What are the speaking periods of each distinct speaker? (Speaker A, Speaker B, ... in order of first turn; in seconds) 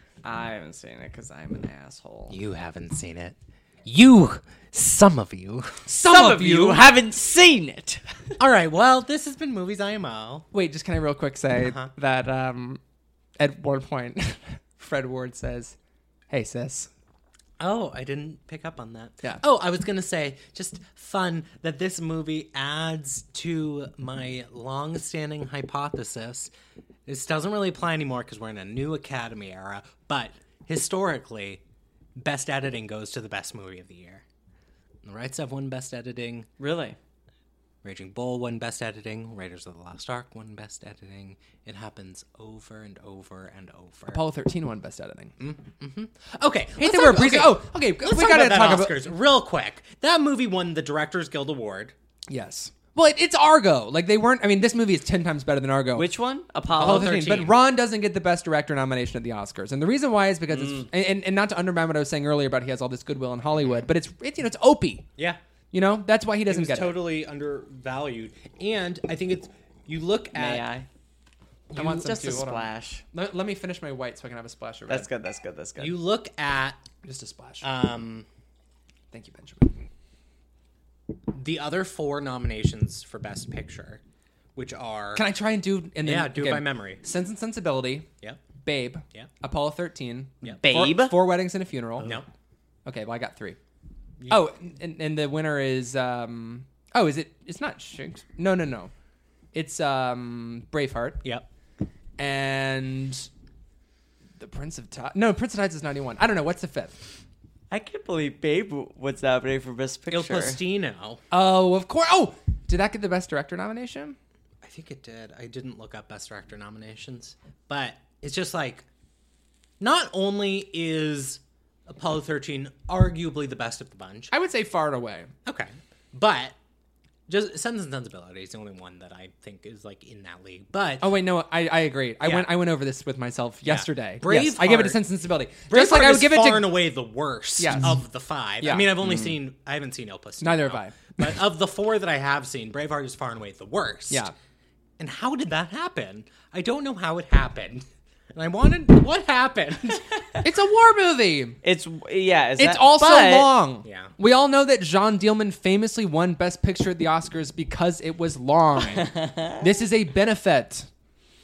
Speaker A: 0.2-2.4, 6.0-8.2, 36.6-37.0, 55.9-57.2, 60.5-60.9, 70.3-70.8, 71.7-73.0, 74.9-75.9, 90.6-91.1, 107.7-110.6, 151.6-153.5, 159.0-159.6
Speaker B: 2.3-5.8, 8.4-10.5, 11.6-11.9, 17.6-26.5, 27.1-31.6, 32.2-34.2, 35.0-36.5, 37.8-44.2, 45.4-51.9, 56.7-57.6, 63.6-63.9, 66.5-70.6, 75.8-76.8, 77.6-78.2, 81.3-84.0, 84.5-85.2, 86.0-87.0, 92.0-92.3, 110.1-111.2, 114.6-118.8, 119.8-124.3, 125.5-126.5, 127.3-131.1, 132.2-132.5, 133.6-135.0, 135.7-144.3, 145.0-150.0, 153.8-154.1
Speaker C: 5.9-6.8, 10.5-12.8, 13.4-15.8, 16.3-16.9, 44.1-45.3, 46.8-49.1, 52.3-56.0, 56.8-65.0, 65.7-67.0, 71.7-75.1, 77.0-77.6, 79.1-79.8, 85.1-88.1, 88.6-92.2, 92.8-93.6, 94.3-98.9, 99.5-101.2, 102.2-103.3, 104.4-107.0, 111.3-114.2, 124.3-125.3, 131.0-136.7, 137.6-138.0, 138.6-139.3, 140.4-141.3, 144.1-144.3, 150.4-151.6, 152.6-160.9